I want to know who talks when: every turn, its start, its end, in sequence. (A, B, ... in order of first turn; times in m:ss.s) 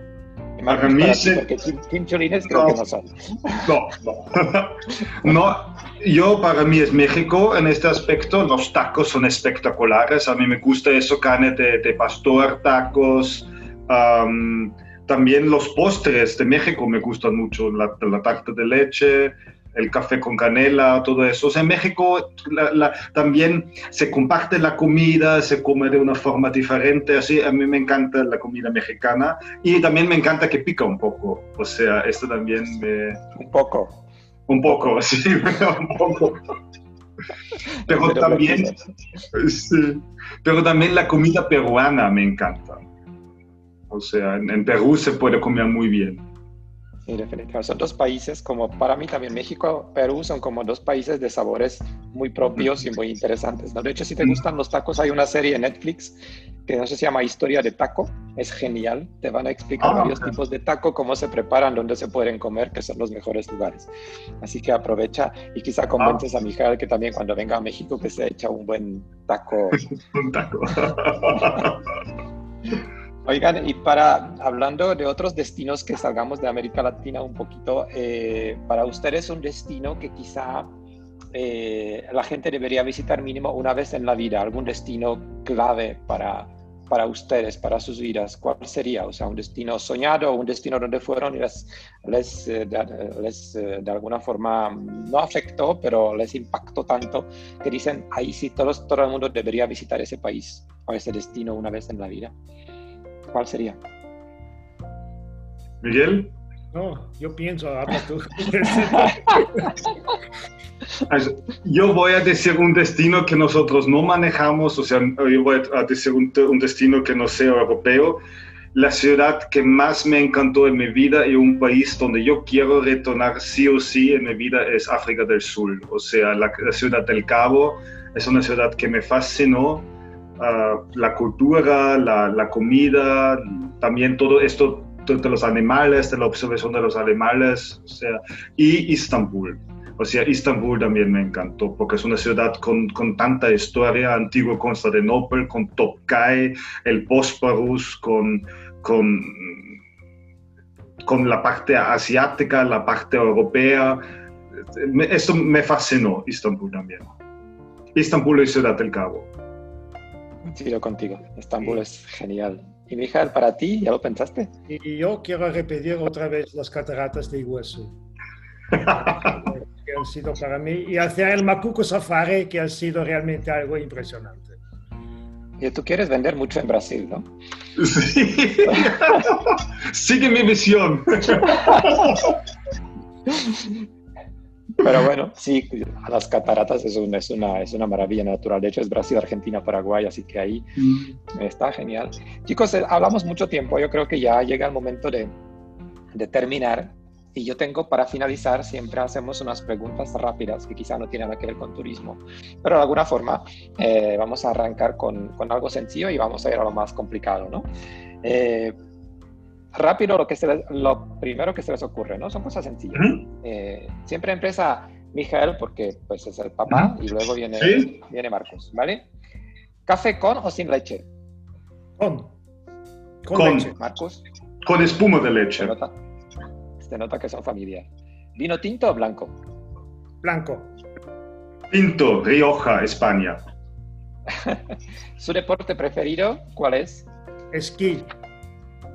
0:00.6-0:03.7 A
0:00.7-0:01.4 B
0:02.5-0:02.8 B
0:03.6-0:33.2 B
0:33.3-0:34.0 A
0:34.5-0:36.4 B
0:37.8-0:38.8 A
0:37.9-0:38.7 B
0:39.3-0:42.8 B
0:43.9-0:46.2 B
0:47.1-1:03.9 A
0:59.8-1:00.3 B
1:04.4-1:09.8 A
1:10.1-1:11.8 B
1:13.2-1:20.7 A
1:21.3-1:42.3 A
1:43.3-1:43.8 A
1:45.8-1:46.3 B
1:46.7-1:49.7 C
1:51.0-1:58.2 B
1:58.7-2:29.8 B
2:31.0-2:34.0 B
2:34.6-2:37.1 B
2:37.9-2:39.3 B
2:40.4-2:44.5 A
2:44.7-2:47.9 C
2:48.8-2:49.2 B
2:48.8-2:54.6 C
2:55.6-2:57.3 A
2:57.8-3:02.2 B
2:58.7-2:59.2 A
3:03.3-3:03.8 A
3:04.8-3:10.8 A
3:10.8-3:11.1 B
3:11.3-3:15.3 A
3:16.2-3:27.7 A
3:28.2-3:28.8 A
3:29.7-3:39.0 A
3:32.9-3:33.2 B
3:37.6-3:37.9 B
3:39.8-3:41.0 A
3:42.0-3:42.3 C
3:43.2-3:43.7 C
3:43.3-3:43.7 B
3:43.7-3:44.2 A
3:44.6-3:45.7 B
3:45.6-3:45.9 A
3:46.8-3:49.4 A
3:50.2-3:50.7 C
3:51.7-3:53.4 B
3:54.3-3:57.0 A
3:57.5-3:58.1 C